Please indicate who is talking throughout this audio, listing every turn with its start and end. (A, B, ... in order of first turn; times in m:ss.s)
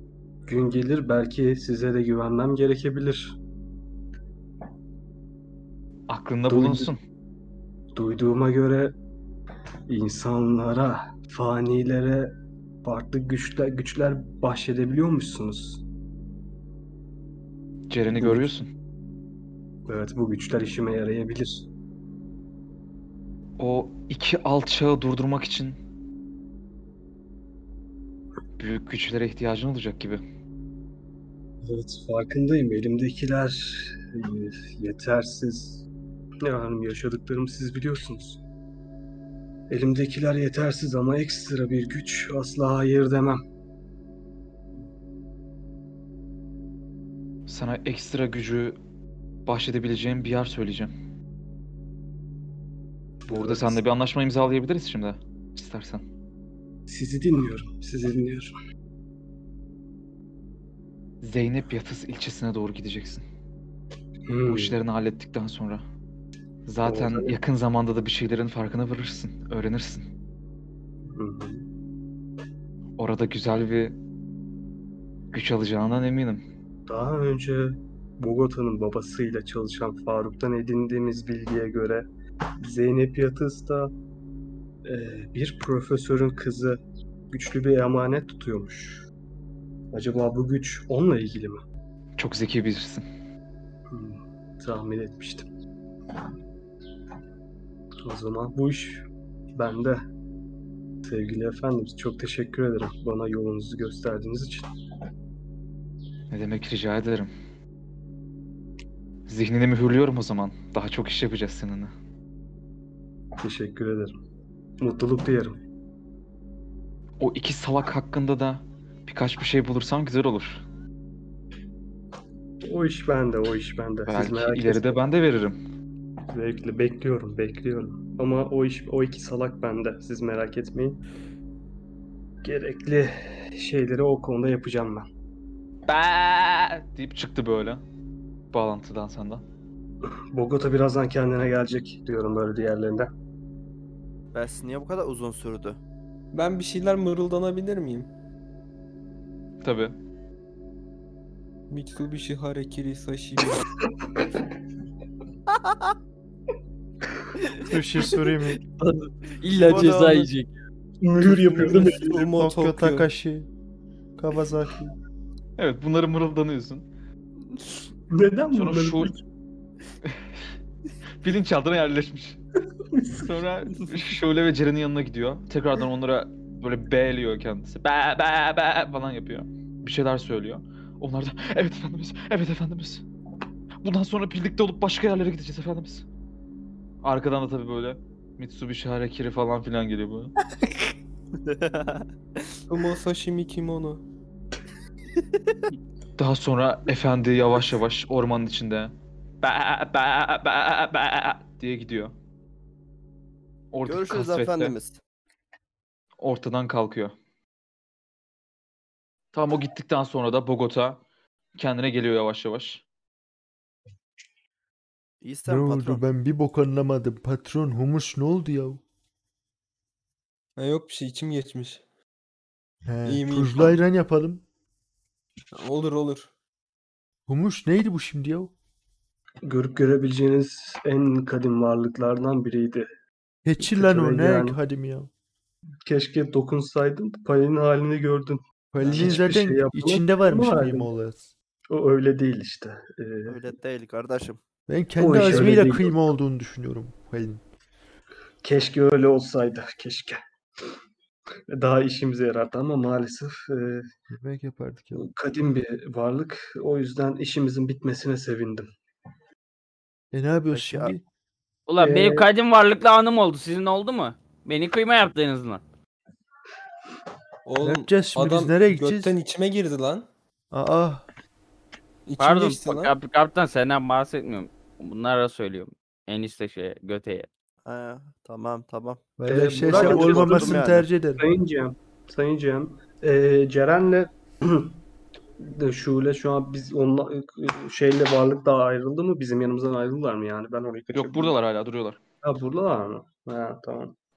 0:00.5-0:03.4 A
0:06.1-0:07.0 B
0:06.5-0:06.9 A
0:08.0-0:09.0 A
0:09.9-0:15.8 A
0:17.9-0:18.7 B
0:18.2-0:18.5 A
0:19.9-0:21.7 A
0:23.6-0:25.8 B
0:28.6-0:30.2 B
0:31.6-0:35.8 A
0:36.4-0:38.4 A
0:39.7-0:43.4 A
0:47.5-0:48.8 B
0:49.5-0:50.9 B
0:53.2-0:53.8 A
0:53.3-0:56.0 B
0:56.9-0:58.5 A
1:01.2-1:03.2 B
1:04.3-1:04.8 A
1:04.5-1:05.8 B
1:06.7-1:10.0 B
1:06.8-1:07.4 A
1:11.1-1:11.6 A
1:13.0-1:14.0 B
1:15.3-1:16.4 B
1:16.9-1:22.1 A
1:22.6-1:23.9 A
1:24.8-1:29.0 A
1:29.9-1:31.6 A
1:32.2-1:33.0 B
1:33.9-1:35.5 A
1:38.0-1:39.0 A
1:39.6-1:40.0 A
1:41.0-1:44.7 A
1:46.3-1:47.3 B
1:49.3-1:51.9 B
1:53.4-1:54.2 A
1:54.8-1:55.6 A
1:57.2-2:00.6 B
2:02.6-2:05.0 A
2:04.1-2:05.6 B
2:06.3-2:11.0 A
2:12.4-2:15.1 A
2:15.9-2:17.8 B
2:18.5-2:19.4 B
2:20.3-2:23.1 A
2:24.3-2:25.8 C
2:26.3-2:28.1 D
2:29.6-2:29.9 B
2:31.7-2:33.7 D
2:37.6-2:38.6 E
2:38.8-2:40.5 F
2:39.6-2:40.3 C
2:41.0-2:42.4 A
2:41.4-2:43.1 D
2:42.3-2:43.5 E
2:44.2-2:44.9 E
2:45.6-2:46.8 B
2:48.1-2:49.2 A
2:48.5-2:49.1 B
2:51.2-2:52.4 B
2:52.9-2:53.3 A
2:53.1-3:03.0 B
3:03.8-3:06.0 B
3:07.0-3:10.3 B
3:11.5-3:12.0 C
3:12.7-3:14.0 D
3:16.2-3:22.1 B
3:23.7-3:24.8 B
3:23.9-3:25.0 C
3:26.2-3:27.1 B
3:29.3-3:31.0 B
3:31.6-3:32.8 B
3:35.2-3:36.0 C
3:35.5-3:38.8 E
3:40.6-3:41.8 D
3:42.9-3:44.4 E
3:43.0-3:43.8 D
3:45.5-3:46.3 D
3:47.3-3:48.5 E
3:49.4-3:52.9 A
3:53.4-3:55.1 E
3:53.6-3:54.6 A
3:55.8-4:00.9 A
3:58.7-4:01.3 E
3:58.9-3:59.2 C
4:01.7-4:03.4 A
4:03.3-4:04.4 C
4:04.7-4:07.4 E
4:05.0-4:06.0 A
4:08.4-4:10.2 A
4:11.5-4:13.8 A
4:14.1-4:15.0 E
4:14.9-4:18.7 A
4:20.1-4:21.0 E
4:20.5-4:21.0 C
4:21.7-4:25.6 F
4:21.8-4:22.3 A
4:27.5-4:30.1 D
4:27.6-4:29.1 E
4:30.5-4:31.0 E
4:32.1-4:32.9 D
4:32.2-4:37.3 F
4:37.6-4:40.9 C
4:39.2-4:41.3 E
4:39.3-4:40.7 A
4:41.2-4:44.8 A
4:45.4-4:51.4 A
4:50.9-4:52.0 B
4:52.2-4:54.0 A